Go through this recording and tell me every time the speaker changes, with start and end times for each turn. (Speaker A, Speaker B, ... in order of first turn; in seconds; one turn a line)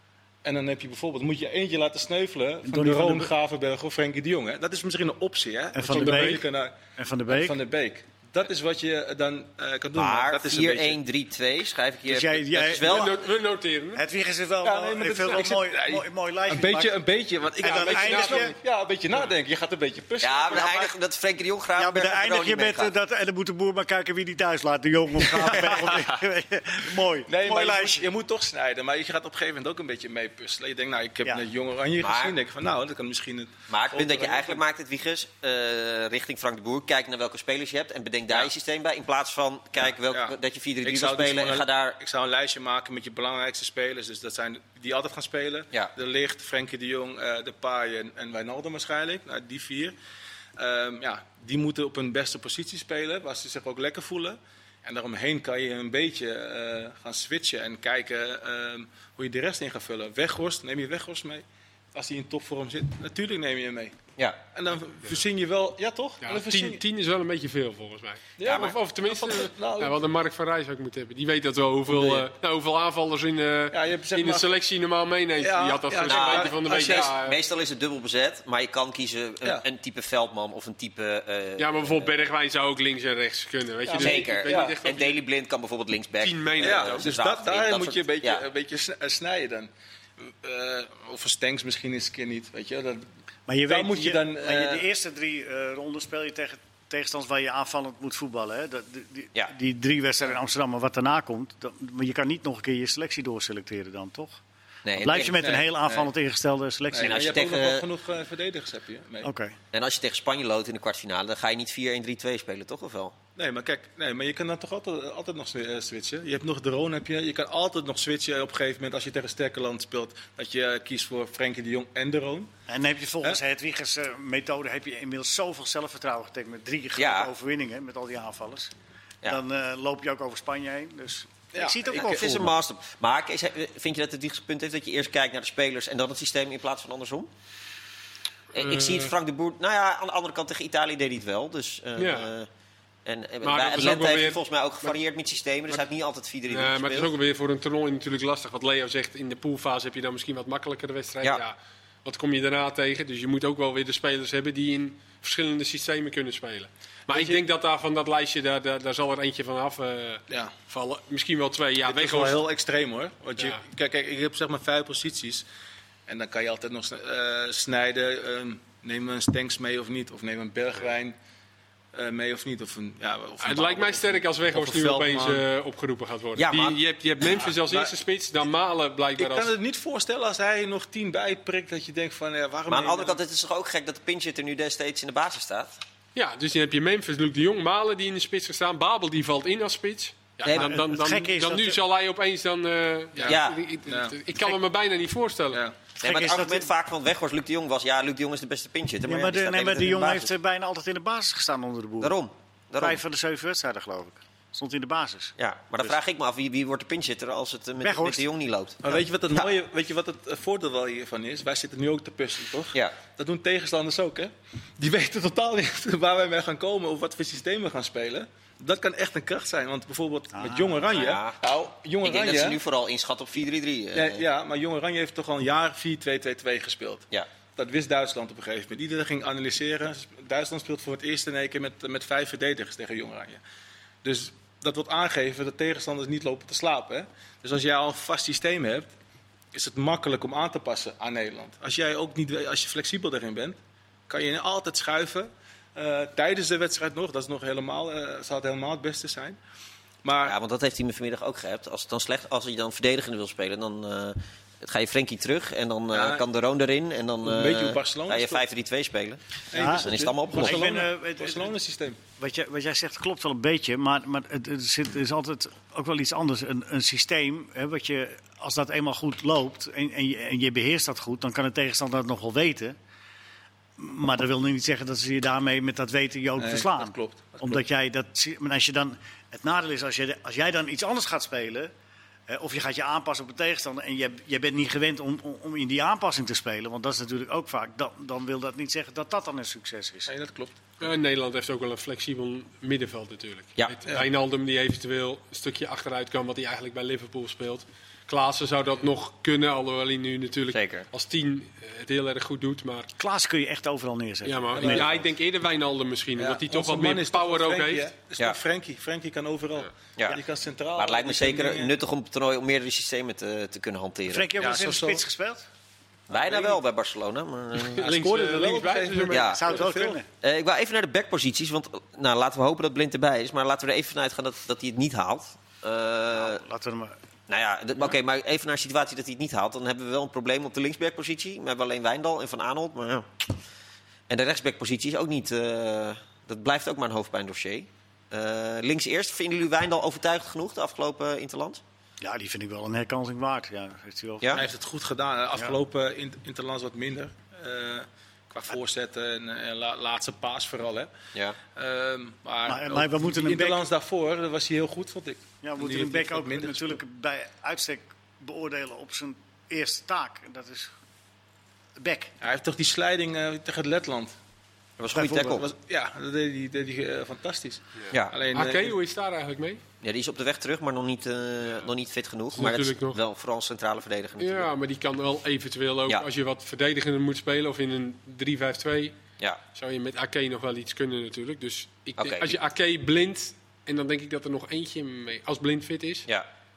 Speaker A: 0.4-6.8
Speaker B: 2.6-3.3
Speaker B: 5.8-7.6
Speaker C: 5.9-6.4
Speaker A: 7.3-11.0
Speaker D: 9.9-13.3
Speaker B: 12.1-13.2
Speaker C: 12.8-14.0
Speaker B: 13.9-17.0
Speaker A: 14.6-20.9
Speaker B: 17.6-18.5
Speaker C: 17.6-18.5
Speaker D: 20.2-22.9
Speaker B: 21.8-28.1
Speaker A: 25.4-26.0
Speaker D: 25.7-26.0
Speaker A: 27.3-34.6
Speaker D: 32.0-32.4
Speaker D: 33.7-42.0
Speaker A: 39.8-50.0
Speaker A: 50.6-64.0
Speaker A: 64.5-66.8
Speaker C: 66.2-77.4
Speaker A: 68.4-70.0
Speaker D: 68.4-68.7
Speaker A: 73.7-74.6
Speaker A: 75.4-77.2
Speaker D: 76.0-82.1
Speaker C: 81.6-85.2
Speaker A: 83.9-84.8
Speaker D: 84.0-88.4
Speaker C: 86.2-87.1
Speaker A: 86.6-93.1
Speaker B: 93.5-104.4
Speaker A: 93.7-94.8
Speaker D: 104.8-105.5
Speaker B: 104.9-107.4
Speaker A: 105.2-106.1
Speaker A: 106.9-109.3
Speaker D: 107.0-107.8
Speaker B: 109.2-109.6
Speaker D: 109.7-113.2
Speaker A: 113.4-122.5
Speaker B: 122.7-128.7
Speaker D: 127.0-127.3
Speaker B: 129.2-132.5
Speaker A: 131.5-132.2
Speaker D: 131.9-137.3
Speaker D: 138.5-142.5
Speaker C: 138.6-139.1
Speaker C: 142.0-142.3
Speaker D: 143.1-147.1
Speaker C: 143.4-144.9
Speaker C: 146.5-162.4
Speaker A: 157.1-157.4
Speaker A: 161.8-165.4
Speaker A: 166.1-171.2
Speaker A: 171.9-175.4
Speaker C: 173.4-179.5
Speaker D: 176.4-176.8
Speaker A: 177.4-177.9
Speaker A: 179.2-183.2
Speaker D: 182.7-185.8
Speaker C: 186.2-195.6
Speaker D: 190.4-190.8
Speaker B: 190.5-191.8
Speaker A: 193.2-194.5
Speaker D: 193.3-193.6
Speaker D: 196.0-200.3
Speaker B: 196.0-196.7
Speaker B: 199.1-202.2
Speaker D: 202.0-203.0
Speaker B: 202.8-205.3
Speaker D: 205.4-209.5
Speaker B: 207.8-208.2
Speaker A: 208.8-222.6
Speaker B: 220.3-220.8
Speaker D: 220.9-221.4
Speaker D: 222.0-224.2
Speaker A: 223.9-233.4
Speaker A: 234.0-238.9
Speaker A: 239.5-243.6
Speaker A: 244.1-249.4
Speaker A: 250.0-250.4
Speaker D: 250.3-260.7
Speaker A: 255.9-256.2
Speaker A: 257.2-258.4
Speaker A: 259.5-262.0
Speaker B: 259.5-261.5
Speaker B: 262.2-272.8
Speaker B: 273.8-281.7
Speaker A: 276.4-277.6
Speaker B: 282.3-290.1
Speaker A: 290.1-290.6
Speaker C: 290.8-302.9
Speaker D: 300.5-300.9
Speaker B: 303.0-305.0
Speaker C: 304.2-307.9
Speaker A: 304.6-304.9
Speaker A: 306.2-311.8
Speaker D: 310.8-314.3
Speaker B: 314.1-315.5
Speaker A: 314.4-315.0
Speaker D: 316.1-317.9
Speaker A: 316.1-316.6
Speaker A: 317.7-320.0
Speaker C: 317.8-319.3
Speaker D: 319.1-319.4
Speaker B: 319.1-320.1
Speaker D: 320.2-326.4
Speaker B: 326.1-327.0
Speaker D: 327.3-333.3
Speaker D: 334.1-341.6
Speaker B: 342.0-344.4
Speaker A: 344.3-350.9
Speaker A: 351.6-356.8
Speaker B: 352.5-353.7
Speaker B: 355.4-360.7
Speaker B: 361.8-362.1
Speaker A: 362.2-364.1
Speaker D: 364.8-365.5
Speaker B: 364.9-365.4
Speaker A: 365.2-368.7
Speaker D: 367.9-368.2
Speaker C: 368.3-369.6
Speaker D: 369.8-374.5
Speaker C: 372.4-373.0
Speaker C: 374.2-379.0
Speaker C: 379.5-386.1
Speaker D: 382.0-382.4